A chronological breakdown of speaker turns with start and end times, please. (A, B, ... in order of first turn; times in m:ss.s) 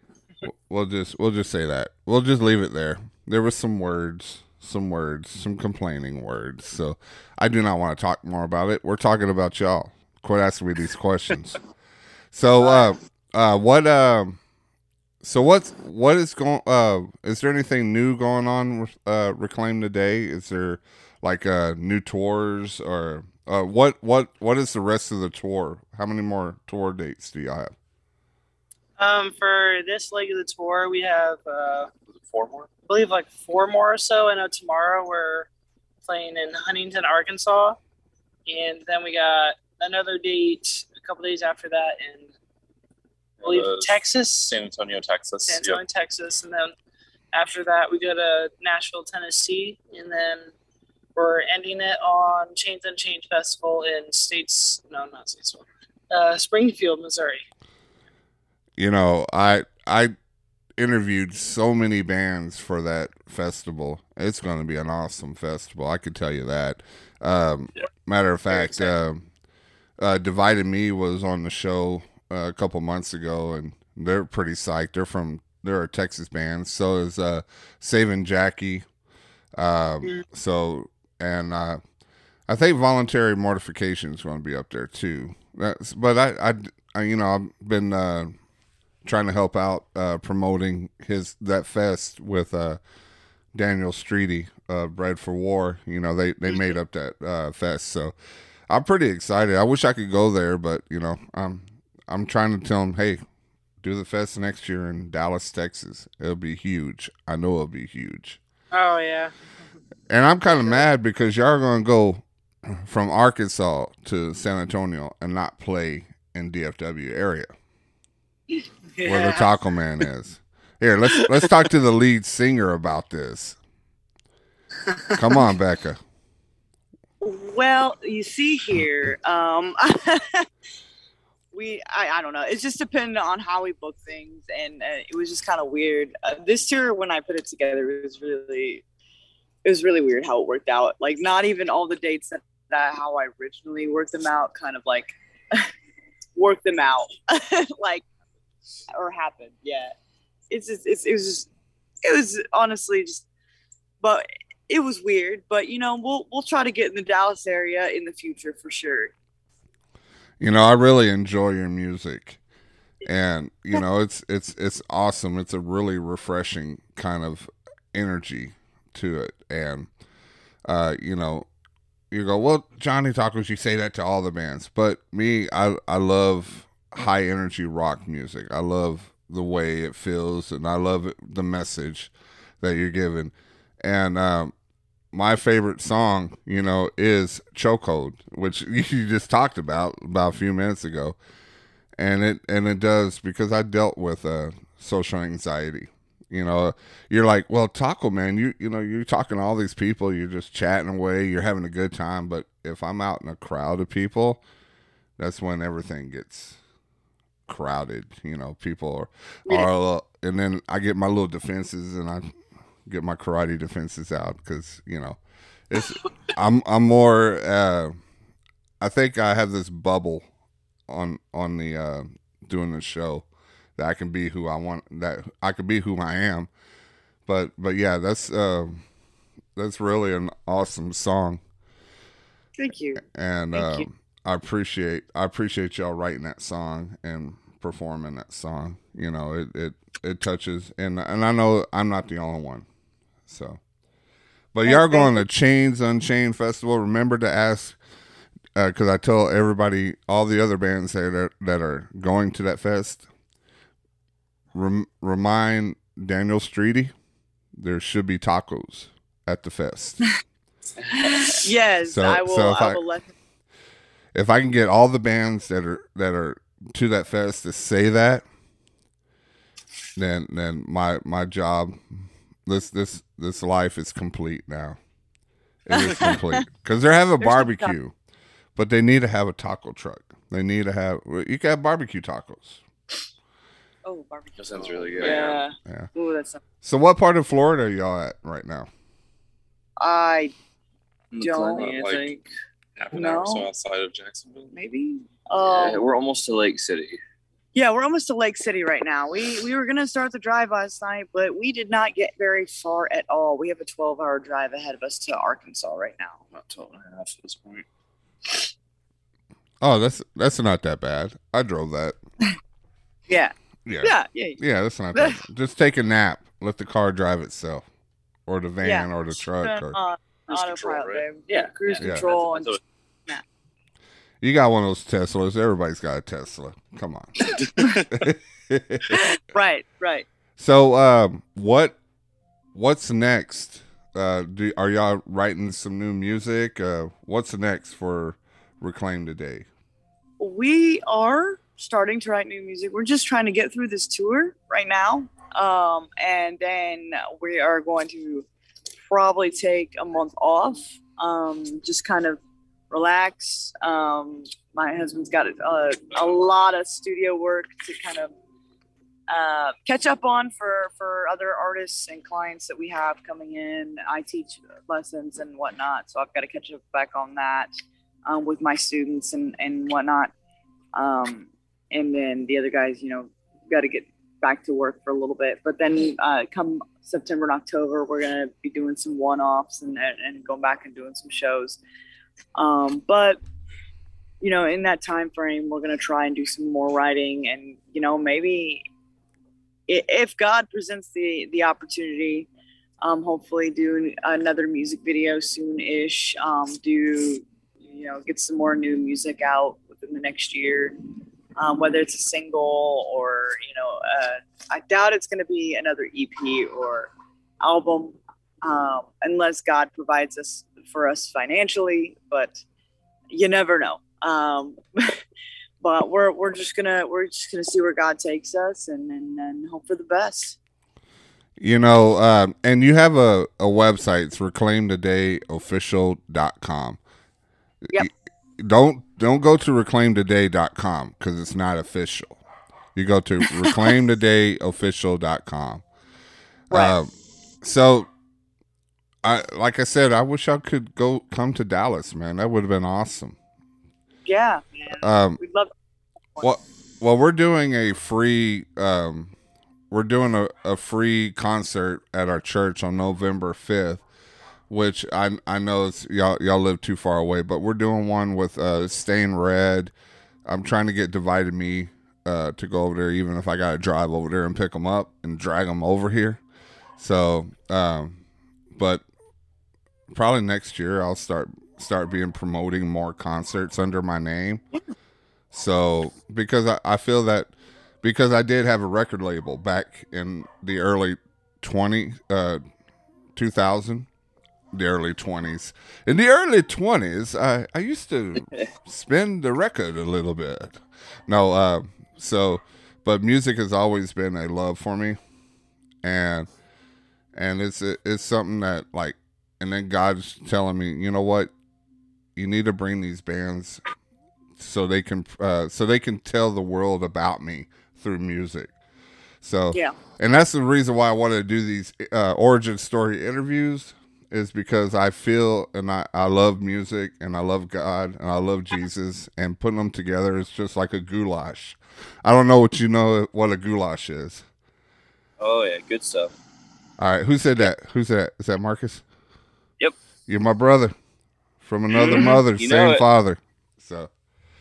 0:00.4-0:11.6 A
0:12.3-0:14.4 A
0:15.2-0:27.7 A
0:29.0-0:31.9 B
0:32.1-0:32.7 C
0:32.9-0:35.5 B
0:36.0-0:37.8 B
0:38.4-0:42.3 B
0:43.4-0:45.8 C
0:43.4-0:44.6 B
0:45.4-0:46.7 B
0:47.3-0:50.5 B
0:51.1-0:57.4 B
0:58.8-1:00.1 A
1:00.8-1:09.2 A
1:08.5-1:08.9 C
1:10.0-1:18.8 A
1:19.6-1:21.8 A
1:22.5-1:28.3 A
1:29.0-1:32.8 A
1:33.5-1:38.1 A
1:38.7-1:43.2 A
1:43.8-1:48.4 A
1:48.7-1:49.3 B
1:50.1-1:57.5 A
1:59.0-1:59.5 B
1:59.0-2:03.6 A
2:05.1-2:06.0 A
2:07.2-2:10.5 D
2:11.5-2:18.8 D
2:19.6-2:25.7 D
2:26.4-2:28.0 D
2:28.9-2:29.9 D
2:30.5-2:31.5 D
2:32.0-2:33.2 D
2:34.0-2:39.1 D
2:40.4-2:42.4 A
2:43.0-2:49.9 A
2:50.6-2:51.5 A
2:52.1-3:04.5 A
3:05.1-3:11.2 A
3:12.0-3:24.4 A
3:25.2-3:26.6 A
3:27.5-3:32.3 A
3:32.8-3:38.0 A
3:38.8-3:40.2 A
3:40.9-3:46.5 A
3:47.3-3:48.8 A
3:49.6-3:51.4 A
3:52.6-3:53.0 D
3:53.0-4:02.6 A
3:53.5-3:53.9 D
4:03.3-4:03.6 A
4:04.5-4:07.8 A
4:04.6-4:05.2 D
4:08.6-4:13.1 A
4:14.5-4:16.9 A
4:17.5-4:20.0 A
4:21.0-4:23.1 D
4:21.8-4:22.8 A
4:24.1-4:28.2 A
4:30.0-4:34.8 A
4:35.6-4:37.9 A
4:35.7-4:36.4 D
4:37.2-4:37.7 D
4:38.6-4:42.6 A
4:43.8-4:46.4 D
4:44.4-4:45.4 E
4:44.6-4:45.4 C
4:46.6-4:48.7 A
4:49.8-4:50.3 D
4:51.1-4:52.2 E
4:51.2-4:51.8 D
4:51.6-4:52.1 C
4:52.8-4:54.5 C
4:52.9-4:53.5 D
4:54.5-4:55.8 D
4:55.4-4:57.0 E
4:57.5-5:06.2 D
5:06.3-5:07.6 E
5:09.6-5:12.0 A
5:13.1-5:14.4 D
5:13.6-5:17.6 A
5:18.3-5:19.8 A
5:18.6-5:23.2 D
5:20.3-5:22.6 C
5:21.8-5:22.0 A
5:24.2-5:27.4 A
5:27.9-5:28.8 A
5:28.9-5:30.0 D
5:30.4-5:31.8 A
5:32.5-5:39.5 A
5:40.2-5:48.3 D
5:48.9-5:52.2 D
5:52.7-5:58.1 D
5:59.1-6:07.5 D
6:08.0-6:10.1 D
6:10.7-6:21.6 D
6:22.4-6:23.2 D
6:24.2-6:28.6 D
6:29.7-6:32.3 D
6:32.8-6:40.8 D
6:41.4-6:46.9 D
6:47.4-6:52.4 D
6:53.1-6:55.0 D
6:55.6-7:00.4 D
7:01.4-7:06.8 A
7:07.7-7:12.2 A
7:12.7-7:15.6 A
7:16.5-7:17.9 A
7:16.5-7:16.8 D
7:19.0-7:23.2 A
7:24.0-7:25.5 D
7:24.8-7:25.2 A
7:26.2-7:29.1 A
7:29.7-7:33.8 A
7:34.5-7:39.7 A
7:40.2-7:46.2 A
7:46.8-7:48.0 A
7:48.5-7:48.8 A
7:49.9-7:54.4 A
7:55.3-7:57.3 A
7:57.8-8:02.4 A
8:03.1-8:03.9 A
8:04.5-8:15.0 A
8:15.8-8:16.3 A
8:17.1-8:21.3 A
8:22.2-8:23.6 A
8:24.4-8:28.5 A
8:29.2-8:44.2 A
8:45.2-8:46.1 E
8:46.8-8:48.8 A
8:50.1-8:50.7 A
8:51.4-8:53.9 A
8:51.7-8:52.8 E